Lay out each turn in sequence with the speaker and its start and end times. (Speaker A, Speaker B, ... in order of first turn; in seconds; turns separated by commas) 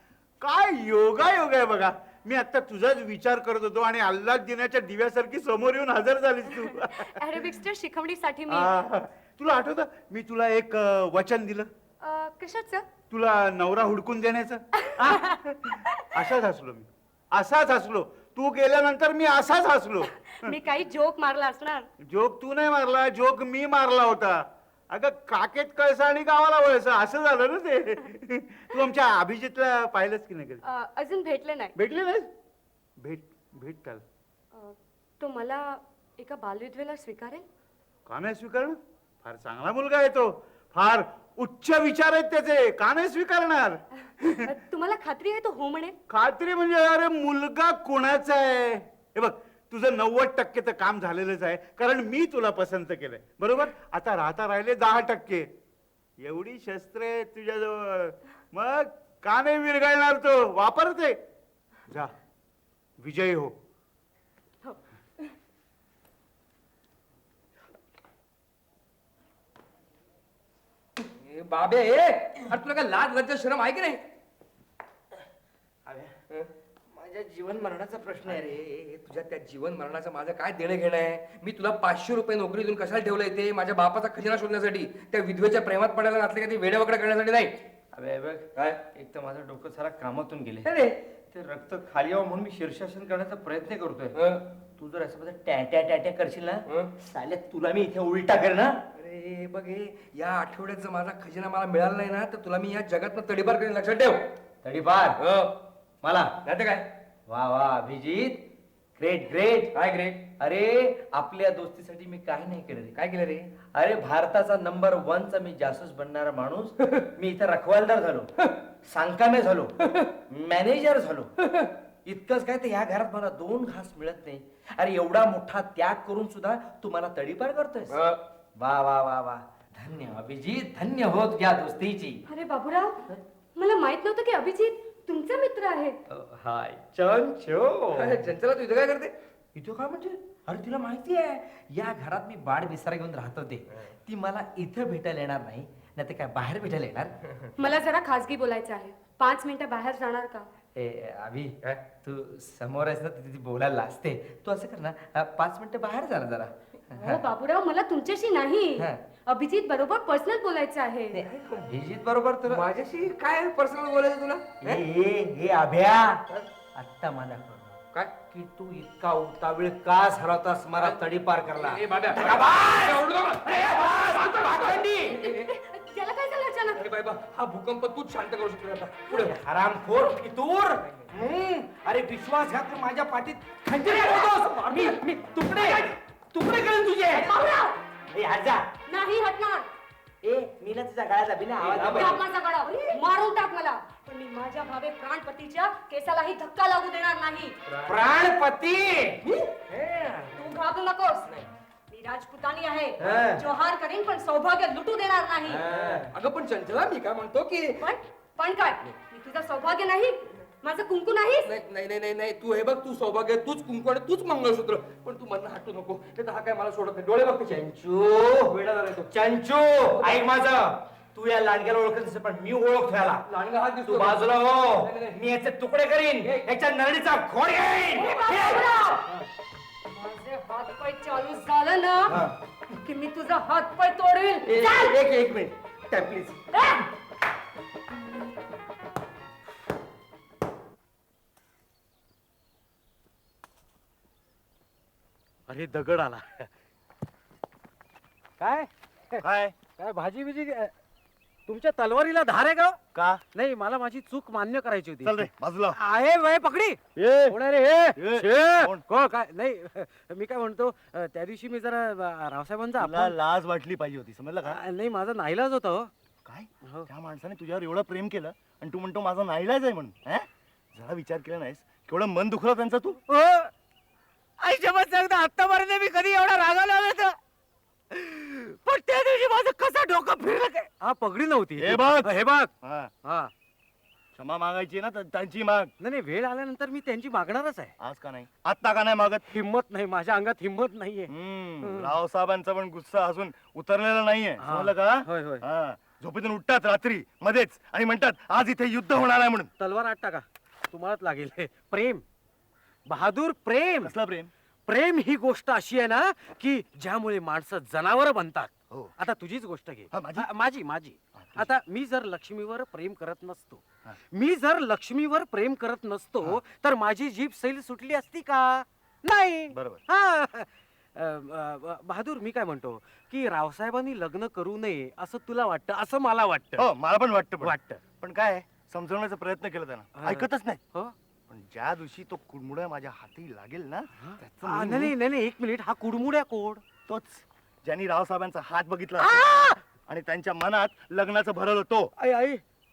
Speaker A: 0.4-6.9, Speaker B: 6.6-8.7, Speaker A: 8.5-11.7, Speaker B: 12.0-12.8, Speaker A: 13.1-15.6, Speaker B: 15.1-15.3, Speaker A: 16.1-20.5, Speaker B: 20.4-21.9, Speaker A: 22.0-24.4, Speaker A: 24.9-30.6, Speaker B: 30.6-31.7, Speaker A: 31.8-32.3, Speaker A: 33.0-34.0, Speaker B: 34.5-37.4, Speaker A: 38.1-44.3, Speaker B: 44.4-46.0, Speaker A: 46.1-55.5, Speaker A: 56.2-61.1, Speaker A: 63.0-63.5, Speaker C: 71.2-74.0, Speaker D: 75.9-76.1, Speaker C: 76.3-87.6, Speaker D: 78.2-78.7, Speaker D: 87.9-90.7, Speaker D: 91.3-94.2, Speaker C: 94.1-94.4, Speaker D: 94.8-98.8, Speaker C: 99.0-104.2, Speaker D: 104.6-105.2, Speaker C: 105.2-105.5, Speaker D: 106.0-106.3, Speaker C: 106.4-106.9, Speaker D: 107.3-108.5, Speaker D: 109.0-109.7, Speaker C: 109.7-110.3, Speaker D: 110.4-113.0, Speaker C: 113.0-113.5, Speaker D: 113.7-118.3, Speaker D: 118.8-119.7, Speaker D: 120.3-121.3, Speaker D: 122.0-128.0, Speaker C: 127.9-128.2, Speaker D: 128.6-132.2, Speaker B: 132.3-133.0, Speaker B: 133.5-136.0, Speaker D: 136.1-138.2, Speaker C: 137.9-139.1, Speaker D: 139.5-147.1, Speaker B: 147.6-150.5, Speaker D: 150.7-157.2, Speaker B: 157.0-161.2, Speaker D: 161.2-162.6, Speaker C: 161.3-161.7, Speaker C: 162.5-164.8, Speaker D: 164.6-166.2, Speaker D: 166.7-172.9, Speaker C: 171.6-175.4, Speaker B: 175.1-176.9, Speaker C: 176.8-179.3, Speaker D: 179.1-180.8, Speaker E: 181.1-187.2, Speaker D: 181.8-183.2, Speaker C: 184.0-184.9, Speaker C: 186.5-187.1, Speaker B: 187.1-187.8, Speaker D: 188.1-188.6, Speaker B: 188.9-189.7, Speaker D: 190.2-192.1, Speaker C: 191.6-192.2, Speaker B: 191.9-197.5, Speaker C: 197.7-198.1, Speaker E: 197.9-198.5, Speaker C: 199.2-200.3, Speaker B: 200.3-201.3, Speaker B: 201.9-205.6, Speaker D: 203.0-203.4, Speaker D: 205.5-206.1, Speaker C: 205.7-207.8, Speaker B: 207.8-211.5, Speaker C: 211.4-217.6, Speaker D: 217.5-218.5, Speaker C: 218.4-219.2, Speaker D: 219.1-223.2, Speaker C: 219.9-220.3, Speaker C: 223.2-225.2, Speaker D: 223.8-228.6, Speaker B: 227.9-229.1, Speaker B: 229.9-232.2, Speaker B: 232.7-234.9, Speaker D: 234.5-236.3, Speaker B: 236.5-236.8, Speaker E: 245.5-246.5, Speaker E: 248.4-250.7, Speaker F: 249.2-249.6, Speaker E: 251.5-252.8, Speaker F: 252.9-253.2, Speaker E: 253.3-255.2, Speaker F: 255.0-255.8, Speaker E: 255.7-263.1, Speaker F: 256.9-257.4, Speaker F: 257.9-258.8, Speaker F: 262.8-264.6, Speaker E: 264.5-265.9, Speaker F: 266.2-273.0, Speaker E: 273.1-273.5, Speaker E: 274.4-277.2, Speaker E: 277.9-282.5, Speaker F: 281.6-282.9, Speaker E: 283.0-283.3, Speaker F: 284.1-285.7, Speaker E: 285.8-287.7, Speaker F: 287.8-289.2, Speaker E: 289.2-291.1, Speaker F: 291.1-299.5, Speaker E: 291.6-291.9, Speaker E: 294.4-295.4, Speaker E: 299.6-302.0, Speaker E: 302.9-303.9, Speaker F: 303.8-304.3, Speaker E: 304.7-326.7, Speaker F: 308.7-308.9, Speaker F: 309.9-310.3, Speaker F: 311.2-311.5, Speaker F: 319.5-319.8, Speaker F: 326.6-330.6, Speaker E: 327.4-327.8, Speaker E: 329.9-330.9, Speaker F: 331.3-333.9, Speaker E: 334.0-336.6, Speaker F: 334.4-334.9, Speaker F: 336.9-339.2, Speaker E: 339.0-339.6, Speaker F: 339.9-341.9, Speaker E: 342.0-342.4